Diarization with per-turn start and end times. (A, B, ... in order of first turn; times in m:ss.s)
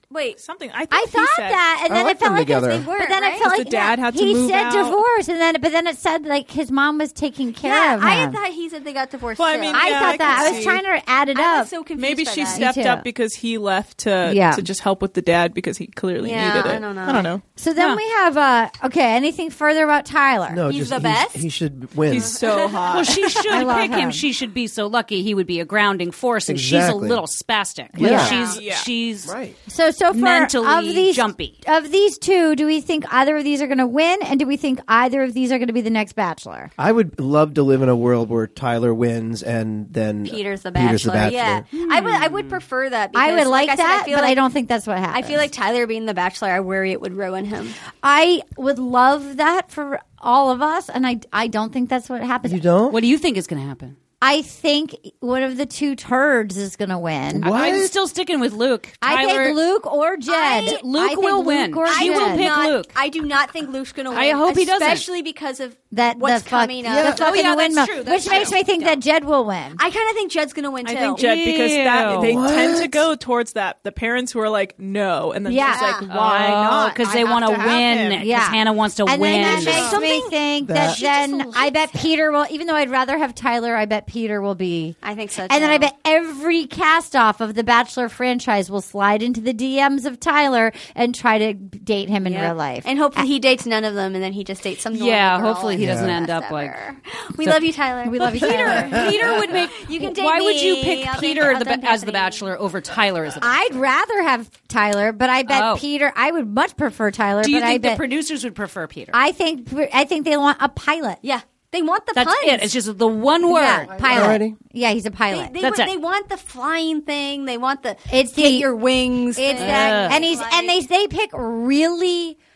0:00.1-0:00.4 A
0:00.4-0:01.6 B
0:00.9-0:08.4 C
0:01.9-0:02.9 D
0:02.4-0:03.5 A
0:03.4-0:05.0 B
0:07.6-0:10.8 A
0:09.4-0:10.8 B
0:09.7-0:11.7 C
0:11.3-0:12.7 A
0:12.0-0:17.4 B
0:12.5-0:13.1 C
0:14.2-0:14.7 C
0:16.2-0:17.3 A
0:17.6-0:20.6 C
0:17.8-0:18.0 E
0:20.5-0:22.4 D
0:20.7-0:21.5 A
0:22.1-0:23.8 B
0:22.1-0:23.4 A
0:22.9-0:29.3 E
0:23.5-0:24.3 C
0:26.5-0:27.2 D
0:27.9-0:28.4 D
0:28.0-0:28.4 C
0:28.1-0:28.6 A
0:28.2-0:28.9 B
0:29.2-0:29.6 D
0:29.7-0:36.7 C
0:30.1-0:31.6 E
0:36.8-0:41.6 D
0:40.3-0:44.4 A
0:41.8-0:42.6 E
0:43.2-0:45.5 C
0:45.1-0:47.8 A
0:48.0-0:52.6 C
0:52.4-0:53.0 D
0:52.9-0:54.0 E
0:54.2-0:57.5 C
0:57.4-0:57.9 D
0:57.4-0:59.6 E
0:59.0-1:02.5 C
1:00.3-1:00.8 A
1:00.6-1:02.9 E
1:01.8-1:09.0 A
1:04.1-1:05.1 E
1:05.9-1:09.8 C
1:06.9-1:07.2 D
1:07.0-1:08.7 E
1:09.8-1:11.2 A
1:10.8-1:18.2 B
1:11.2-1:12.5 E
1:12.2-1:13.1 D
1:15.5-1:16.0 C
1:15.7-1:16.1 A
1:16.1-1:20.0 E
1:18.2-1:25.0 C
1:19.3-1:22.1 A
1:19.4-1:20.0 B
1:20.6-1:21.0 D
1:25.0-1:25.9 A
1:25.5-1:33.3 C
1:32.2-1:42.5 A
1:34.9-1:36.8 E
1:35.8-1:36.2 D
1:38.0-1:39.2 C
1:38.3-1:43.7 E
1:38.5-1:39.4 D
1:43.4-1:48.0 C
1:45.5-1:45.8 E
1:47.4-1:49.2 E
1:49.1-1:51.2 C
1:51.2-1:52.7 A
1:52.2-1:54.0 E
1:53.5-1:55.6 C
1:54.0-1:54.6 D
1:55.3-2:00.8 A
1:55.6-1:55.9 E
1:58.1-1:58.7 C
1:59.4-2:02.4 C
1:59.6-2:00.3 E